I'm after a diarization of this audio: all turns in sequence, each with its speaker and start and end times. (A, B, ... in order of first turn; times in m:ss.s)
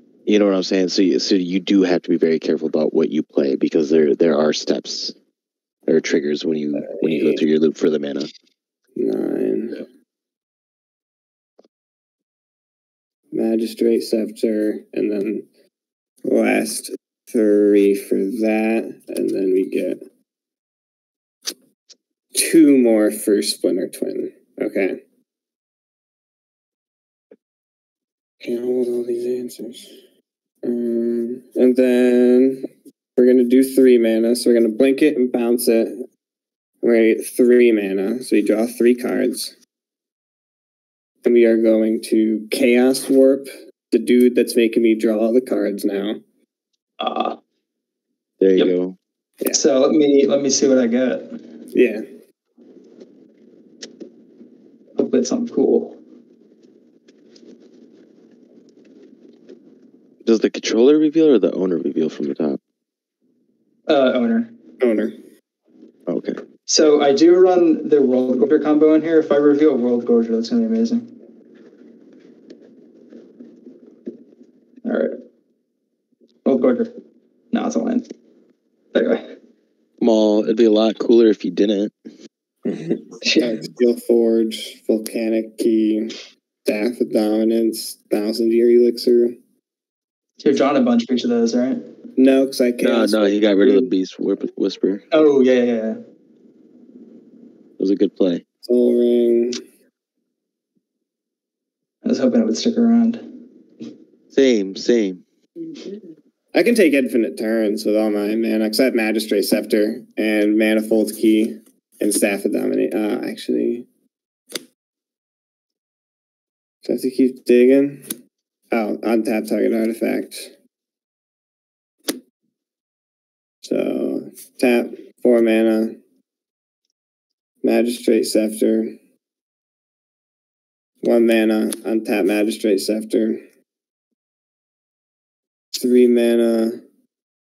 0:00.3-0:05.1 A
0:05.9-0:08.3 A
0:06.7-0:07.4 B
0:09.0-0:09.8 B
0:13.3-0:15.5 B
0:16.2-0:20.0 B
0:22.4-0:25.0 B
0:28.4-0:29.9 B
0:30.6-0:32.6 B
0:33.2-0:36.0 B
0:36.8-0:39.5 B
0:41.2-0:46.2 B
0:47.0-0:47.4 C
0:48.4-0:49.0 A
0:49.5-0:51.4 C
0:51.7-0:52.0 B
0:55.0-0:56.0 C
1:00.2-1:02.6 A
1:03.9-1:04.5 C
1:04.8-1:05.2 B
1:06.1-1:06.4 A
1:06.7-1:11.1 C
1:14.8-1:15.2 C
1:16.4-1:16.9 C
1:17.5-1:18.0 C
1:18.9-1:19.3 C
1:20.0-1:21.9 A
1:22.8-1:29.4 B
1:23.2-1:23.6 C
1:30.4-1:31.9 C
1:32.2-1:33.9 B
1:32.8-1:35.0 A
1:35.1-1:36.0 C
1:37.8-1:38.4 A
1:38.6-1:39.6 B
1:42.0-1:43.3 C
1:44.3-1:45.2 A
1:46.5-1:53.8 B
1:56.8-1:58.1 B
1:58.7-2:00.5 B
2:03.6-2:06.0 B
2:07.6-2:08.9 B
2:11.0-2:13.4 B
2:15.7-2:16.8 B